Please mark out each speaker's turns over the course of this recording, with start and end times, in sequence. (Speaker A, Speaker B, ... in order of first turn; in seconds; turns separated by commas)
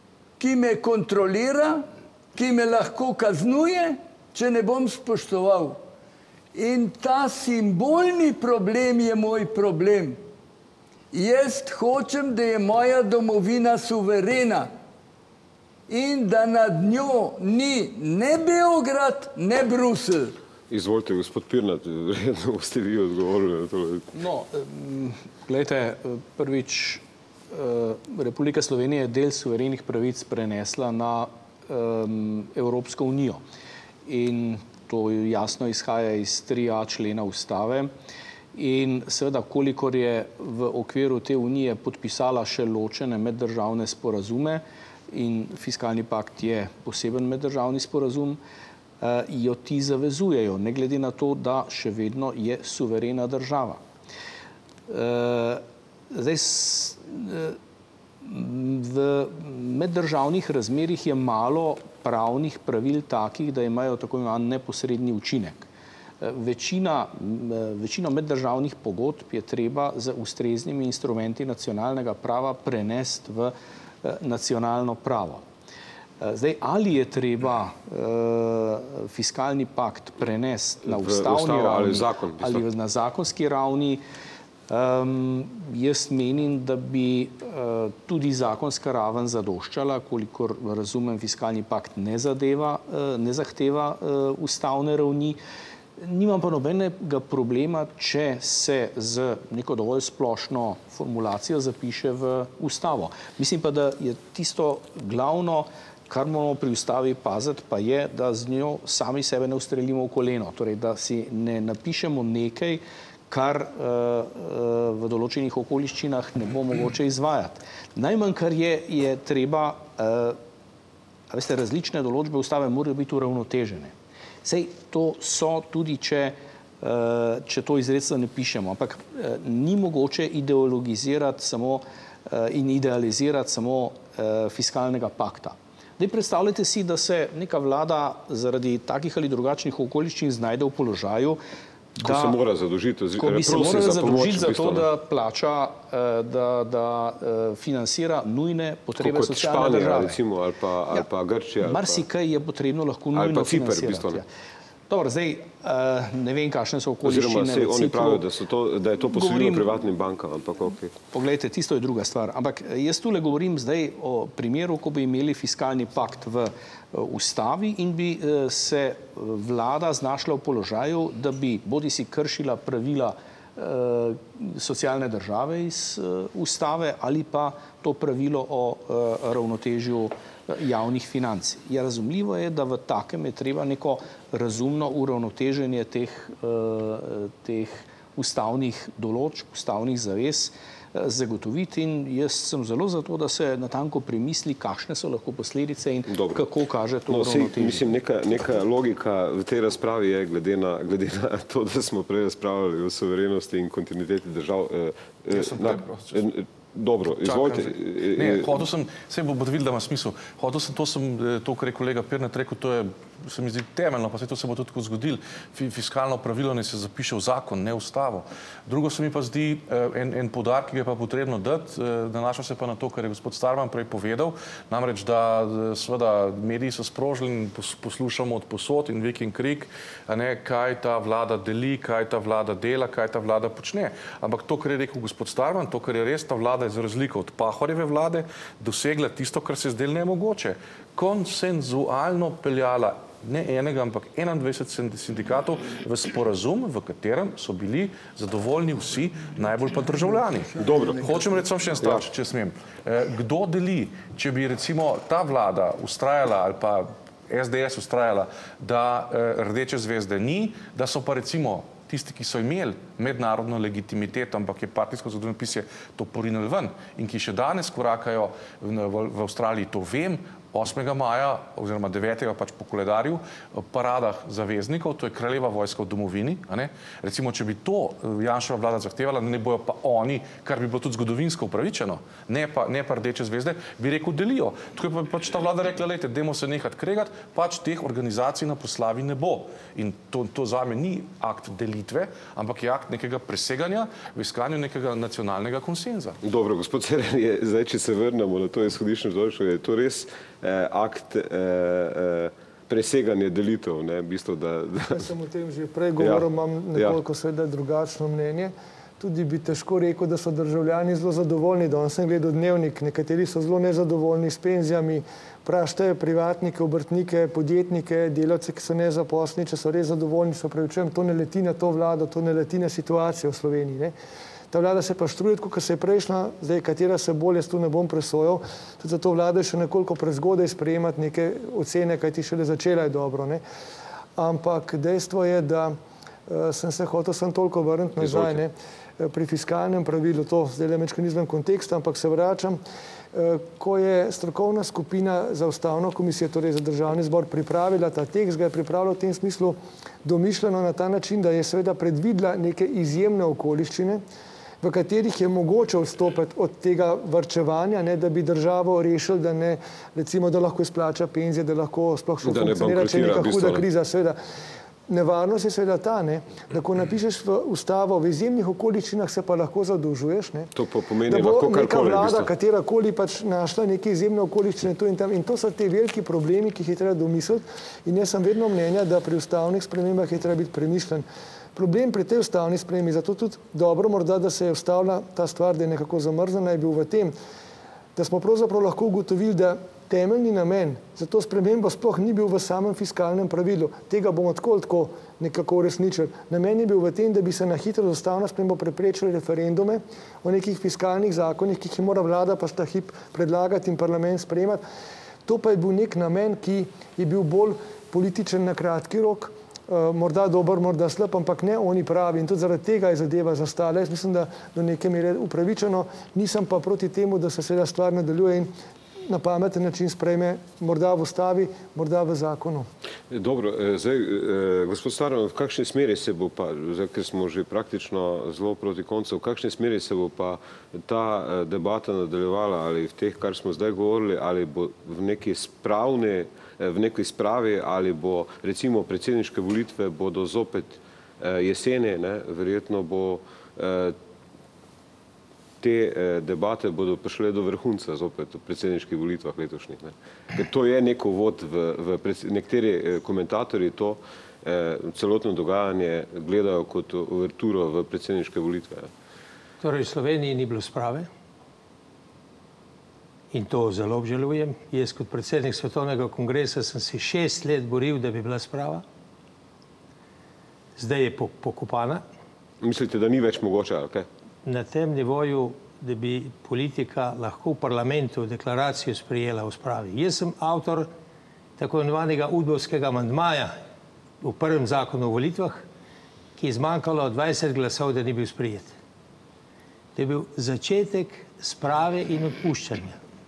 Speaker A: 0.4-5.8, Speaker A: 6.5-10.2, Speaker A: 11.1-14.7, Speaker A: 15.9-20.3, Speaker B: 20.7-24.1, Speaker C: 24.1-33.4, Speaker C: 34.0-37.9, Speaker C: 38.5-48.4, Speaker C: 49.0-53.8, Speaker C: 54.9-57.6, Speaker C: 58.2-65.7, Speaker C: 66.2-75.5, Speaker C: 76.2-84.0, Speaker B: 80.9-82.6, Speaker C: 84.7-95.4, Speaker C: 96.0-120.4, Speaker C: 121.3-141.4, Speaker C: 142.0-142.4, Speaker B: 142.0-144.9, Speaker C: 143.2-150.2, Speaker B: 149.0-152.0, Speaker C: 151.6-154.3, Speaker B: 153.1-154.2, Speaker C: 154.9-158.2, Speaker B: 157.0-160.9, Speaker C: 159.1-159.7, Speaker C: 161.1-197.9, Speaker B: 196.1-196.4, Speaker B: 197.1-208.6, Speaker D: 205.3-206.3, Speaker D: 207.1-296.2, Speaker B: 250.6-251.1, Speaker B: 251.8-252.1, Speaker B: 296.2-305.1, Speaker E: 304.9-323.9, Speaker B: 306.0-307.0, Speaker E: 324.5-333.4, Speaker E: 334.1-335.8, Speaker E: 336.3-342.6, Speaker B: 338.0-338.4, Speaker E: 343.1-354.0, Speaker E: 354.6-364.2, Speaker B: 362.2-363.6, Speaker E: 364.9-370.5, Speaker B: 370.5-372.3, Speaker E: 371.1-387.1, Speaker E: 387.9-404.6, Speaker E: 405.2-418.5, Speaker E: 419.1-422.7, Speaker B: 423.1-444.0, Speaker B: 445.6-458.9, Speaker F: 459.6-461.1, Speaker F: 463.3-468.8, Speaker F: 470.8-472.0, Speaker B: 472.6-474.1, Speaker F: 474.4-480.9, Speaker F: 481.6-483.5, Speaker F: 484.2-485.6, Speaker F: 486.4-488.7, Speaker F: 489.9-493.0